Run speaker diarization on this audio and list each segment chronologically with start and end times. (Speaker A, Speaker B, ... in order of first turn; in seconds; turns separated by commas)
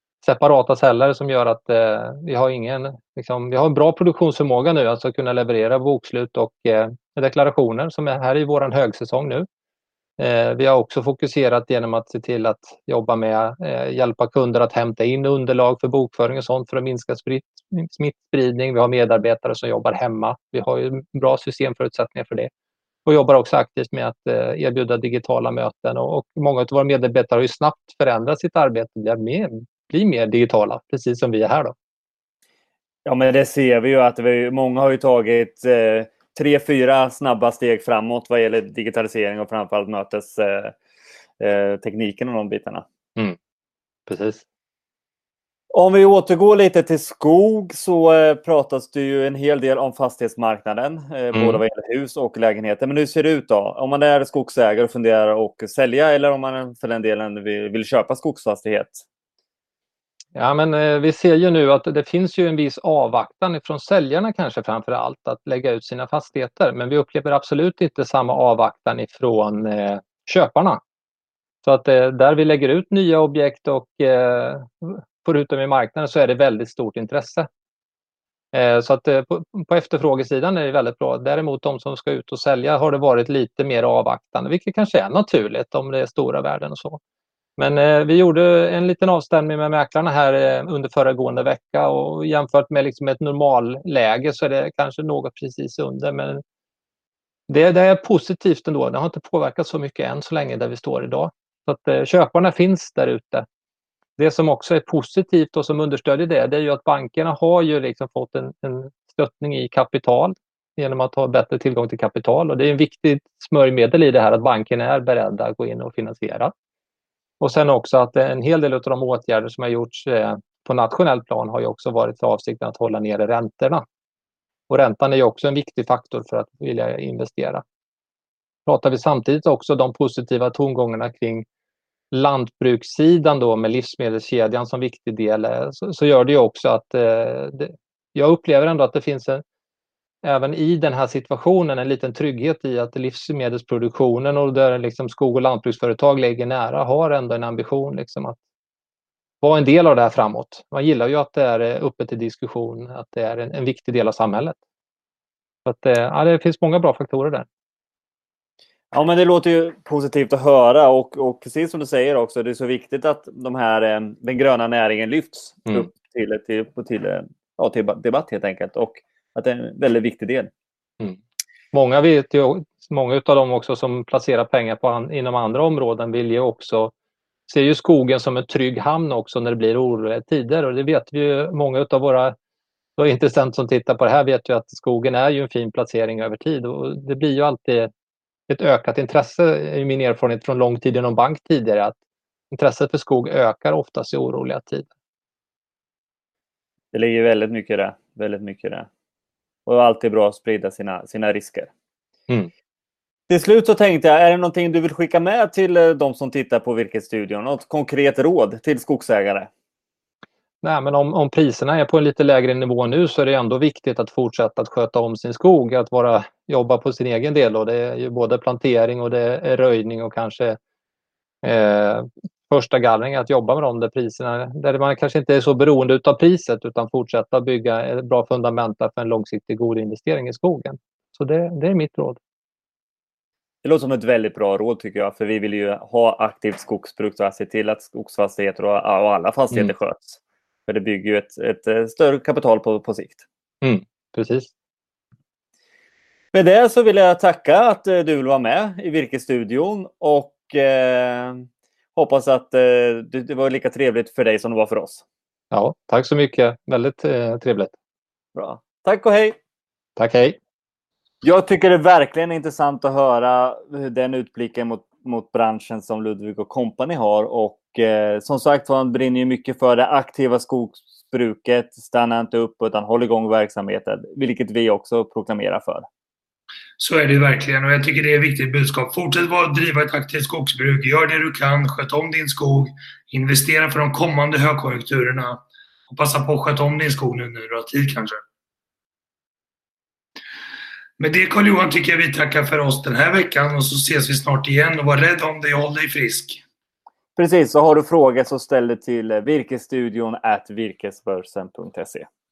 Speaker A: 0.2-9.4, Speaker A: 10.2-22.5, Speaker A: 23.0-31.7, Speaker B: 33.0-40.8, Speaker B: 41.4-42.9, Speaker A: 44.1-44.4, Speaker B: 45.7-59.0, Speaker A: 51.3-51.6, Speaker A: 60.3-70.8, Speaker A: 71.6-77.5, Speaker A: 78.5-87.0, Speaker A: 87.6-96.4, Speaker A: 97.5-103.5, Speaker A: 104.2-116.5, Speaker A: 117.4-123.8, Speaker A: 124.7-127.6, Speaker A: 128.7-131.4, Speaker A: 132.1-139.4, Speaker A: 140.2-148.4, Speaker A: 149.4-154.6, Speaker A: 155.6-157.4, Speaker B: 158.9-170.5, Speaker A: 171.7-176.9, Speaker A: 177.5-182.3, Speaker A: 183.0-187.9, Speaker A: 188.5-191.9, Speaker A: 192.5-194.9, Speaker B: 196.9-198.9, Speaker B: 199.7-201.7, Speaker B: 203.3-209.5, Speaker A: 210.6-220.6, Speaker A: 221.4-232.2, Speaker B: 233.6-243.2, Speaker A: 243.6-244.5, Speaker B: 246.3-255.0, Speaker A: 255.5-257.7, Speaker B: 258.3-259.4, Speaker A: 260.0-260.4, Speaker B: 261.2-275.8, Speaker C: 276.8-288.2, Speaker C: 291.0-296.4, Speaker B: 297.1-302.1